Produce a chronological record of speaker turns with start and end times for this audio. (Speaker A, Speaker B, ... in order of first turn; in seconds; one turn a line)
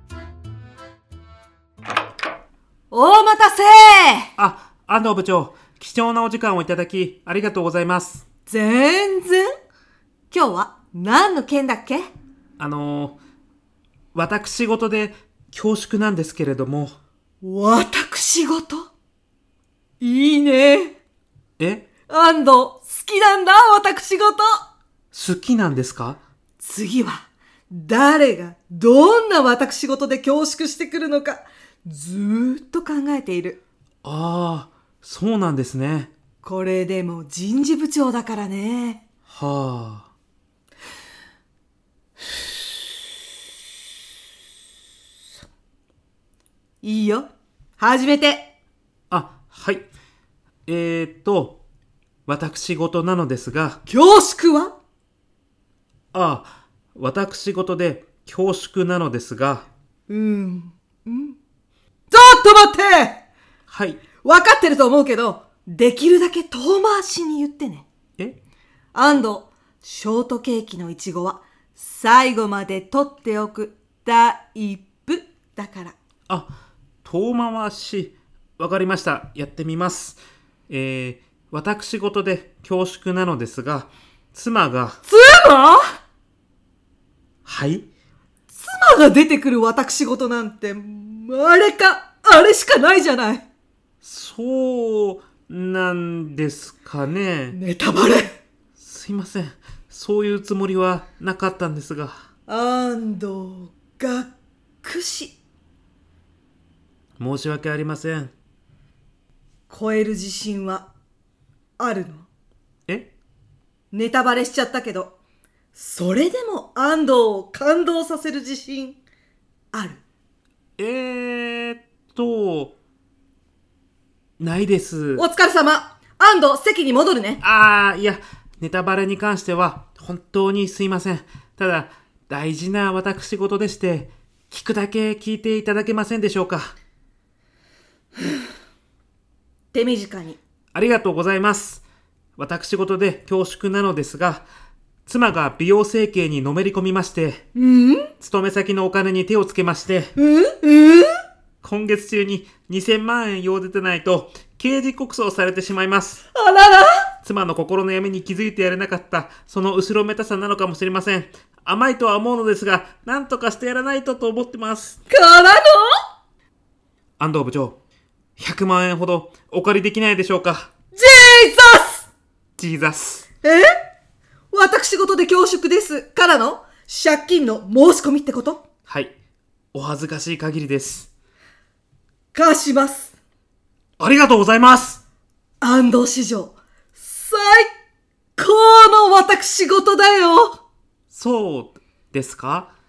Speaker A: 2.9-4.3
Speaker B: 4.4-8.2
Speaker A: 8.5-9.5
Speaker A: 10.3-12.1
Speaker B: 12.6-13.2
Speaker B: 14.1-17.0
Speaker A: 17.4-18.9
Speaker A: 20.0-21.0
Speaker B: 21.6-21.9
Speaker A: 22.1-24.7
Speaker B: 25.1-26.2
Speaker A: 26.6-33.6
Speaker B: 34.0-36.1
Speaker A: 36.4-39.0
Speaker B: 39.3-40.1
Speaker A: 46.8-48.5
Speaker B: 49.1-49.9
Speaker B: 50.7-51.6
Speaker B: 52.3-53.8
Speaker A: 53.9-54.8
Speaker B: 56.1-59.7
Speaker A: 60.1-61.4
Speaker A: 62.1-63.2
Speaker B: 63.7-64.0
Speaker A: 64.2-67.9
Speaker A: 68.9-76.0
Speaker B: 77.0-85.0
Speaker A: 85.1-85.8
Speaker B: 87.5-87.9
Speaker A: 88.5-93.5
Speaker B: 94.0-97.6
Speaker A: 97.5-98.4
Speaker B: 98.8-102.2
Speaker A: 102.5-105.4
Speaker B: 107.2-108.3
Speaker A: 109.7-110.9
Speaker A: 111.8-112.3
Speaker B: 112.9-113.1
Speaker A: 113.9-115.2
Speaker A: 115.7-119.0
Speaker A: 119.7-120.0
Speaker B: 120.8-122.7
Speaker B: 124.4-125.2
Speaker A: 125.2-127.4
Speaker B: 127.4-136.7
Speaker A: 139.7-140.4
Speaker B: 140.7-141.8
Speaker B: 142.4-144.5
Speaker B: 145.1-147.4
Speaker A: 147.6-148.1
Speaker B: 148.2-150.1
Speaker A: 150.2-151.1
Speaker B: 151.6-156.2
Speaker A: 156.3-157.1
Speaker B: 157.2-165.0
Speaker A: 165.1-165.9
Speaker B: 167.2-167.8
Speaker B: 168.4-170.7
Speaker A: 170.9-172.1
Speaker B: 172.6-173.2
Speaker A: 173.4-173.7
Speaker A: 174.5-178.6
Speaker B: 178.9-179.1
Speaker B: 179.7-181.1
Speaker A: 182.3-183.1
Speaker B: 184.0-185.0
Speaker A: 185.6-187.7
Speaker A: 188.4-190.6
Speaker B: 191.1-192.7